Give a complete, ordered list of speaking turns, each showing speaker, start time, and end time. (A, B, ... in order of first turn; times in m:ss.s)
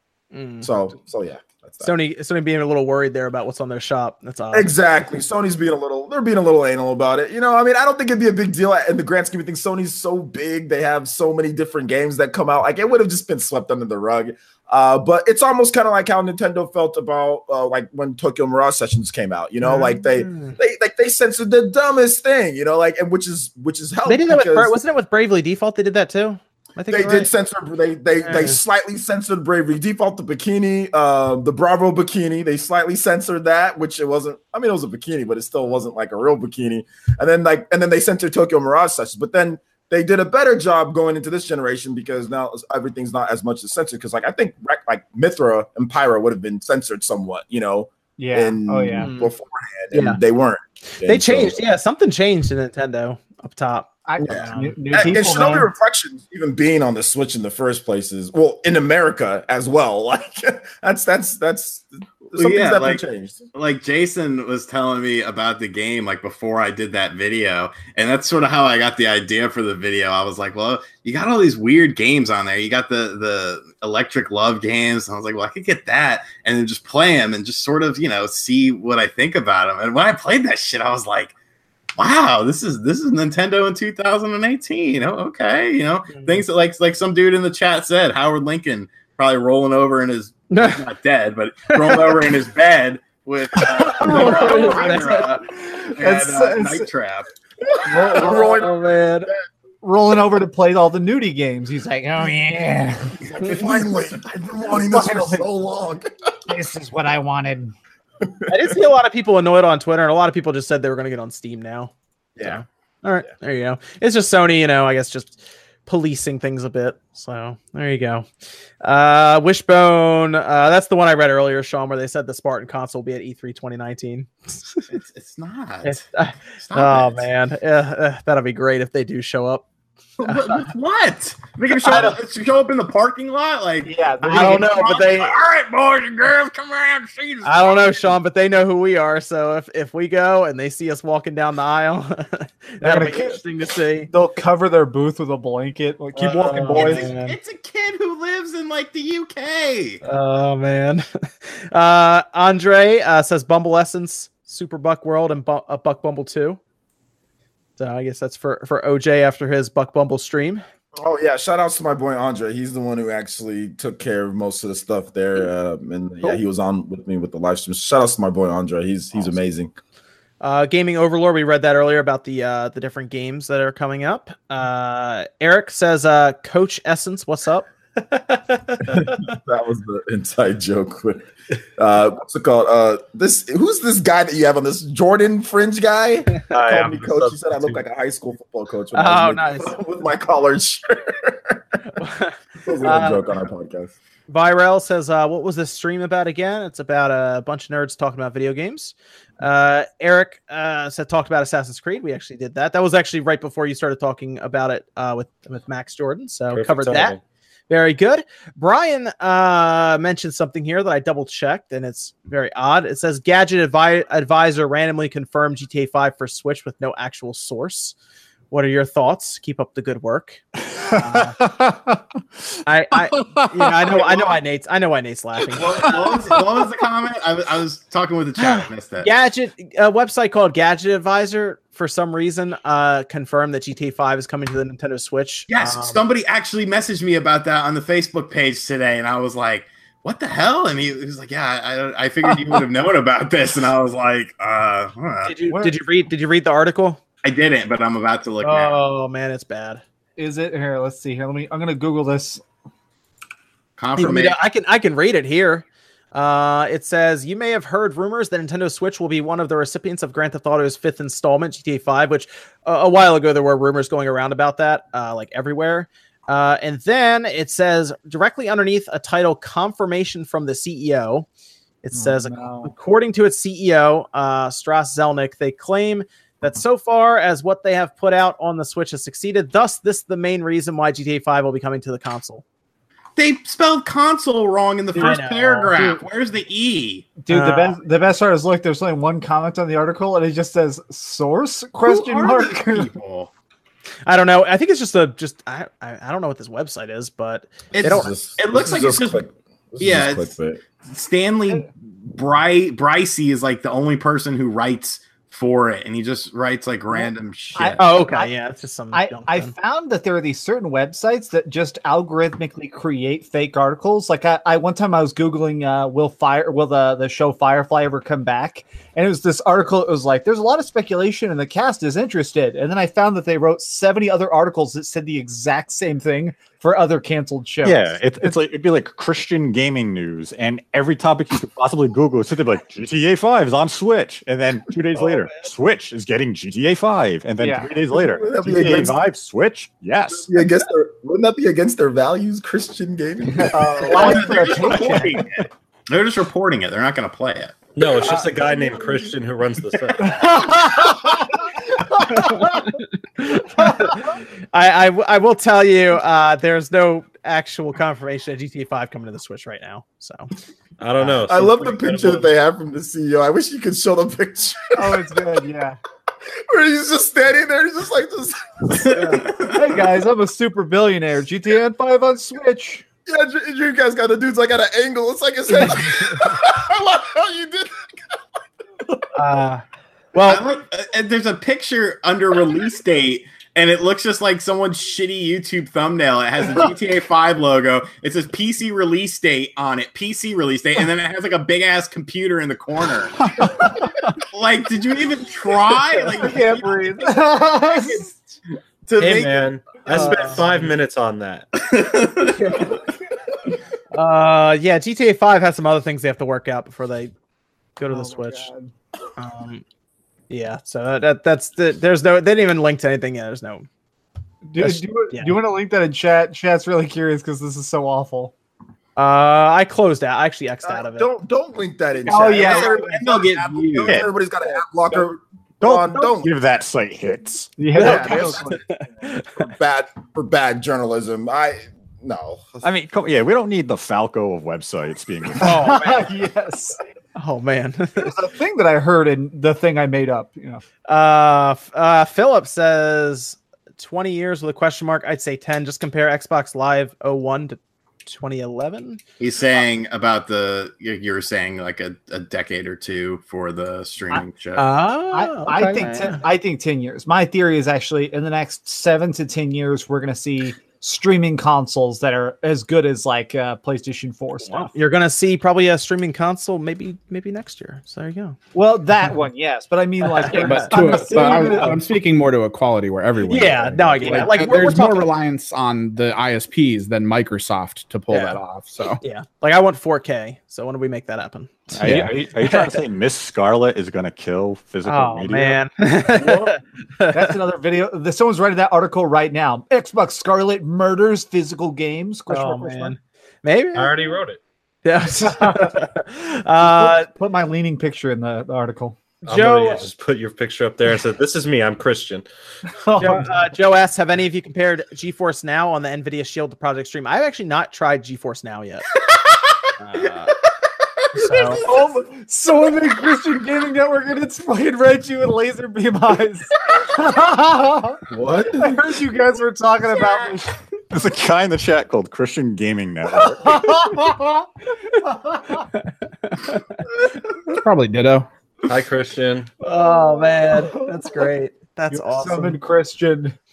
0:00.3-0:00.7 A
0:00.6-0:01.9 B
0:01.8-0:04.7 A
0:04.5-0:24.7 B
0:19.6-0:20.6 A
0:24.0-0:27.3 A
0:26.9-0:51.6 B
0:28.2-0:28.6 A
0:48.2-0:49.1 C
0:48.9-0:49.3 A
0:49.9-0:50.2 A
0:51.0-0:55.6 A
0:54.0-0:55.7 C
0:54.3-1:03.4 B
1:02.4-1:03.0 D
1:03.5-1:21.3 D
1:22.0-1:37.3 D
1:26.1-1:26.4 A
1:30.5-1:30.8 A
1:31.7-1:32.1 A
1:33.8-1:35.3 A
1:34.0-1:36.9 C
1:37.6-1:38.8 B
1:37.8-1:38.7 C
1:38.0-1:39.3 A
1:39.8-1:43.6 C
1:43.3-1:46.5 B
1:44.6-1:45.4 C
1:46.5-1:47.7 C
1:48.2-1:48.5 B
1:48.5-1:58.2 A
1:52.4-1:52.6 B
1:58.8-2:04.9 A
2:04.9-2:07.3 D
2:05.8-2:09.6 A
2:10.2-2:18.1 D
2:10.2-2:10.6 A
2:11.7-2:12.1 A
2:13.8-2:14.9 C
2:14.3-2:15.4 A
2:17.4-2:24.1 A
2:22.8-2:23.4 C
2:24.1-2:27.1 C
2:26.2-2:27.4 A
2:26.7-2:30.0 D
2:30.0-2:36.6 A
2:37.8-2:40.6 A
2:41.0-2:49.7 B
2:50.4-2:57.7 A
2:58.3-2:59.0 E
2:58.8-3:12.0 B
3:06.5-3:07.8 E
3:08.9-3:09.8 A
3:12.0-3:13.2 A
3:12.6-3:13.9 B
3:14.3-3:27.2 A
3:26.5-3:27.2 E
3:27.7-3:37.9 A
3:38.5-3:41.4 A
3:41.2-3:41.9 F
3:42.6-3:46.1 A
3:43.4-3:43.6 F
3:43.9-3:44.2 D
3:45.6-3:49.1 D
3:48.4-3:56.0 A
3:55.5-4:05.5 D
4:05.2-4:07.0 A
4:05.5-4:05.8 C
4:07.2-4:08.8 D
4:08.4-4:09.8 A
4:10.2-4:12.4 C
4:13.8-4:14.4 D
4:14.0-4:31.3 A
4:31.8-4:42.4 A
4:31.9-4:32.7 C
4:43.2-4:47.1 D
4:44.9-4:46.0 A
4:47.2-4:52.9 C
4:47.3-4:47.8 A
4:51.8-4:53.3 D
4:54.0-4:58.1 A
4:57.7-4:59.2 D
4:57.8-5:00.6 B
4:59.8-5:00.3 D
5:00.8-5:07.8 D
5:07.0-5:08.3 C
5:07.8-5:09.5 A
5:08.9-5:28.3 C
5:27.6-5:40.3 G
5:37.4-5:37.7 C
5:37.7-5:39.0 B
5:38.6-5:38.9 D
5:40.1-5:44.9 B
5:43.3-5:45.2 C
5:43.8-5:45.2 A
5:43.9-5:47.7 D
5:47.7-5:50.3 E
5:48.1-5:49.1 B
5:50.1-5:51.4 C
5:52.1-5:52.6 C
5:52.1-6:00.3 A
5:53.6-5:53.9 C
6:00.8-6:02.3 E
6:01.0-6:05.2 B
6:04.8-6:05.8 C
6:06.5-6:09.4 B
6:08.9-6:09.6 D
6:08.9-6:09.2 A
6:09.3-6:12.8 C
6:13.0-6:17.9 B
6:19.1-6:20.4 A
6:20.2-6:36.8 D
6:33.4-6:33.7 C
6:36.1-6:38.1 C
6:37.8-6:38.1 D
6:38.8-6:40.4 D
6:39.0-6:41.5 E
6:39.9-6:40.7 A
6:41.6-6:42.5 D
6:42.2-6:42.7 A
6:43.9-6:47.1 A
6:47.8-6:48.5 A
6:47.9-6:48.7 C
6:49.2-6:49.6 A
6:50.3-6:53.6 A
6:54.4-6:58.3 C
6:54.6-6:55.4 A
6:59.0-7:01.1 A
7:00.6-7:06.3 B
7:02.0-7:02.8 C
7:02.3-7:04.1 D
7:05.6-7:08.2 G
7:07.6-7:08.6 C
7:07.7-7:09.5 A
7:09.2-7:12.6 B
7:12.6-7:15.8 G
7:15.4-7:15.9 A
7:15.4-7:16.8 C
7:17.1-7:18.1 A
7:18.0-7:20.6 C
7:20.9-7:29.0 A
7:29.2-7:34.6 D
7:34.6-7:36.2 A
7:35.1-7:44.7 C
7:44.4-7:48.4 A
7:48.5-7:51.8 C
7:50.0-7:51.8 A
7:50.4-7:59.0 F
7:53.2-7:55.1 A
7:58.1-7:58.4 A
7:59.0-8:02.8 A
8:01.7-8:02.1 F
8:01.8-8:05.6 G
8:04.8-8:07.3 A
8:07.1-8:12.9 C
8:12.3-8:14.1 A
8:13.7-8:14.4 E
8:14.8-8:17.1 A
8:15.3-8:15.8 C
8:16.6-8:19.2 C
8:19.2-8:19.9 A
8:19.2-8:22.2 E
8:22.7-8:23.5 C
8:23.0-8:28.9 A
8:29.8-8:30.4 A
8:31.1-8:31.6 A
8:31.4-8:38.0 C
8:31.6-8:31.9 B
8:38.1-8:38.9 B
8:38.6-8:40.6 C
8:40.9-8:43.9 G
8:43.1-8:44.5 C
8:45.0-8:45.7 C
8:45.7-8:46.8 A
8:47.4-8:48.3 F
8:48.7-8:49.5 E
8:49.6-8:52.6 A
8:49.7-8:51.2 C
8:51.9-8:53.4 C